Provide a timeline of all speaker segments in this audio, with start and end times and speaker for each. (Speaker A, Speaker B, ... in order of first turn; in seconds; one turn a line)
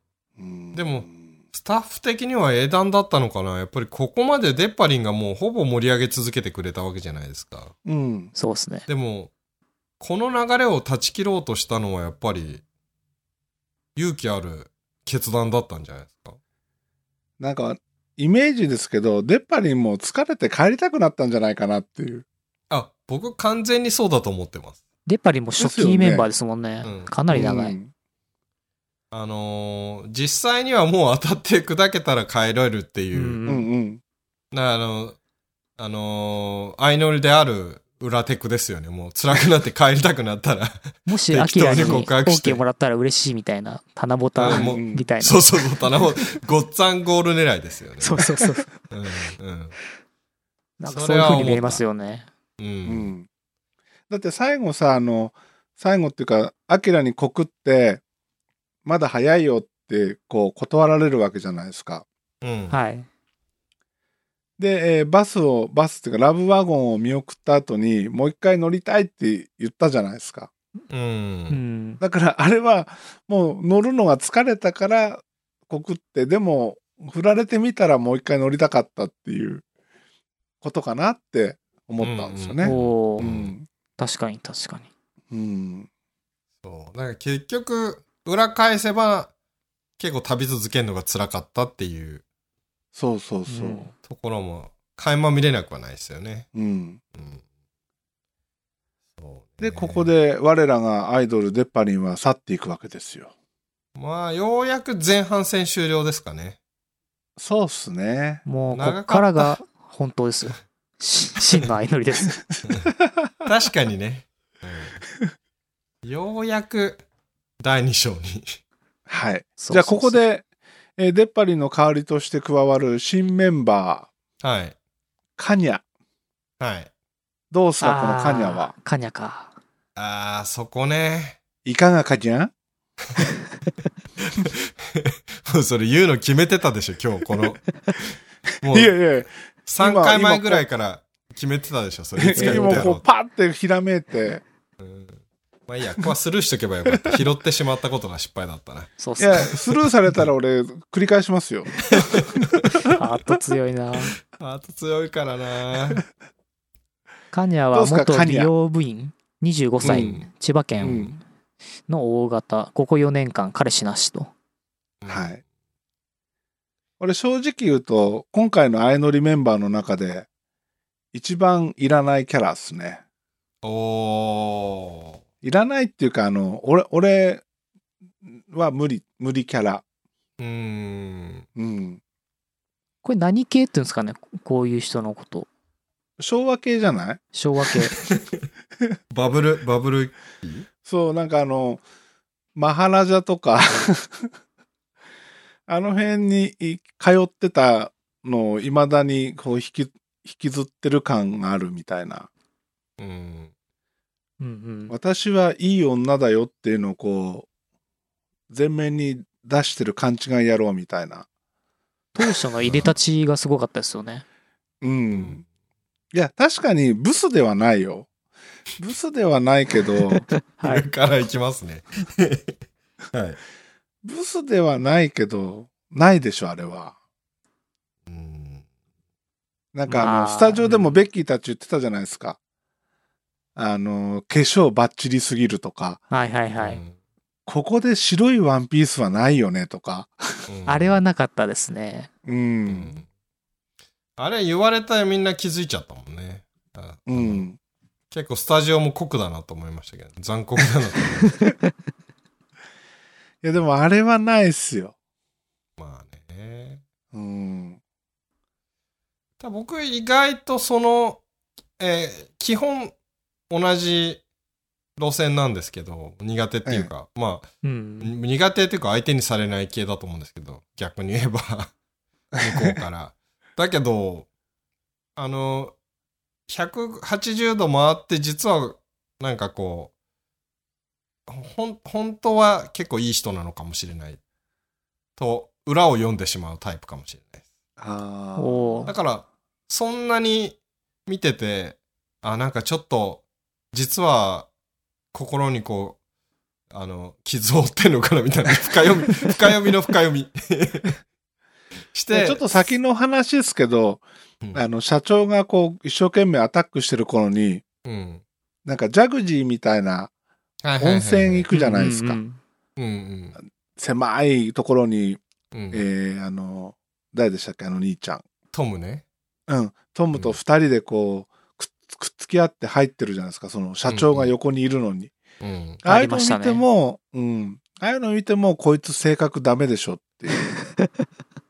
Speaker A: 0.4-1.2
Speaker B: 0.7-7.7
Speaker A: 7.8-8.3
Speaker C: 8.4-8.9
Speaker B: 8.9-9.3
Speaker B: 10.0-12.6
Speaker B: 14.0-16.4
Speaker A: 17.4-22.2
Speaker B: 22.7-24.8
Speaker C: 25.1-27.8
Speaker A: 25.6-26.3
Speaker B: 26.8-27.1
Speaker A: 27.3-27.9
Speaker B: 29.1-33.4
Speaker C: 33.1-33.7
Speaker A: 33.5-34.0
Speaker B: 34.5-35.2
Speaker B: 35.8-42.6
Speaker C: 41.1-45.4
Speaker B: 44.4-48.3
Speaker A: 44.5-45.1
Speaker C: 48.0-48.7
Speaker B: 48.9-49.8
Speaker C: 50.8-52.3
Speaker B: 50.9-51.8
Speaker B: 52.6-53.1
Speaker A: 52.9-53.3
Speaker A: 54.1-58.0
Speaker A: 58.9-62.1
Speaker B: 62.4-62.8
Speaker C: 62.7-63.1
Speaker A: 64.6-70.5
Speaker B: 70.9-71.6
Speaker C: 71.5-72.0
Speaker A: 72.0-79.6
Speaker A: 80.6-83.7
Speaker B: 82.0-83.5
Speaker C: 82.6-83.3
Speaker C: 84.0-84.9
Speaker A: 85.3-85.9
Speaker B: 86.6-89.3
Speaker B: 90.0-92.2
Speaker A: 93.0-93.9
Speaker C: 93.5-93.9
Speaker B: 94.0-96.5
Speaker A: 96.5-97.0
Speaker B: 97.2-97.4
Speaker B: 99.2-100.1
Speaker A: 99.6-103.3
Speaker B: 104.0-106.6
Speaker A: 107.4-108.4
Speaker C: 108.5-112.4
Speaker B: 108.7-109.6
Speaker B: 113.5-115.0
Speaker B: 116.0-117.0
Speaker B: 117.6-118.6
Speaker A: 119.1-120.4
Speaker C: 119.6-120.2
Speaker A: 121.0-124.1
Speaker B: 124.4-124.8
Speaker A: 125.4-125.8
Speaker B: 126.6-126.9
Speaker A: 127.5-128.7
Speaker C: 127.8-129.5
Speaker B: 130.0-131.4
Speaker A: 131.7-132.5
Speaker B: 134.2-137.6
Speaker B: 138.6-139.0
Speaker A: 138.7-140.7
Speaker B: 139.7-143.0
Speaker A: 142.2-144.4
Speaker C: 142.3-142.9
Speaker B: 144.8-148.9
Speaker C: 149.0-149.6
Speaker A: 149.2-152.8
Speaker B: 151.9-152.7
Speaker C: 152.9-154.2
Speaker B: 154.3-156.0
Speaker C: 157.3-161.2
Speaker A: 157.7-158.5
Speaker B: 159.8-161.1
Speaker A: 159.8-160.2
Speaker A: 160.8-161.1
Speaker C: 161.9-164.3
Speaker B: 165.0-165.4
Speaker A: 165.1-165.4
Speaker A: 167.0-170.3
Speaker A: 171.1-173.0
Speaker B: 173.6-175.2
Speaker A: 175.4-177.4
Speaker A: 178.2-179.8
Speaker B: 180.4-181.5
Speaker A: 181.6-182.0
Speaker C: 183.0-185.5
Speaker A: 186.2-187.2
Speaker C: 187.3-188.0
Speaker B: 188.0-188.4
Speaker B: 189.1-190.7
Speaker A: 190.9-191.8
Speaker A: 192.6-194.3
Speaker A: 195.7-202.3
Speaker B: 203.0-203.5
Speaker C: 204.4-204.9
Speaker A: 204.9-207.5
Speaker A: 208.5-211.3
Speaker C: 212.2-214.2
Speaker B: 212.6-212.9
Speaker A: 214.8-215.4
Speaker B: 215.1-215.4
Speaker A: 216.1-218.1
Speaker A: 218.8-220.3
Speaker C: 220.3-220.9
Speaker B: 220.6-222.6
Speaker B: 223.1-223.4
Speaker A: 224.0-226.9
Speaker B: 228.1-228.6
Speaker A: 229.7-232.4
Speaker C: 229.9-231.1
Speaker A: 233.6-236.0
Speaker C: 236.1-236.8
Speaker B: 236.6-236.9
Speaker A: 237.5-240.2
Speaker B: 240.5-241.0
Speaker C: 240.7-242.1
Speaker A: 242.2-243.0
Speaker B: 242.7-243.1
Speaker B: 244.2-247.4
Speaker A: 247.1-247.6
Speaker B: 248.1-251.3
Speaker A: 253.4-254.9
Speaker B: 255.8-256.8
Speaker A: 257.1-257.8
Speaker B: 259.4-261.2
Speaker B: 261.8-262.9
Speaker B: 263.5-264.2
Speaker B: 265.0-267.5
Speaker C: 267.6-268.1
Speaker B: 268.0-271.7
Speaker B: 272.4-274.3
Speaker B: 275.2-275.8
Speaker B: 276.5-279.9
Speaker B: 281.3-284.2
Speaker B: 285.2-287.4
Speaker A: 287.8-288.9
Speaker C: 288.4-288.9
Speaker B: 288.9-294.5
Speaker B: 295.1-296.0
Speaker B: 296.7-301.0
Speaker B: 301.9-302.7
Speaker A: 302.1-304.0
Speaker A: 304.5-307.6
Speaker B: 307.9-308.2
Speaker A: 308.6-310.1
Speaker B: 310.6-311.5
Speaker A: 310.8-312.2
Speaker C: 311.5-312.4
Speaker B: 312.8-313.4
Speaker A: 313.8-315.2
Speaker B: 315.5-315.8
Speaker A: 315.7-318.2
Speaker B: 318.5-319.1
Speaker A: 319.5-325.1
Speaker B: 320.1-320.4
Speaker B: 323.9-324.4
Speaker B: 325.4-325.8
Speaker A: 325.8-330.5
Speaker C: 325.9-326.6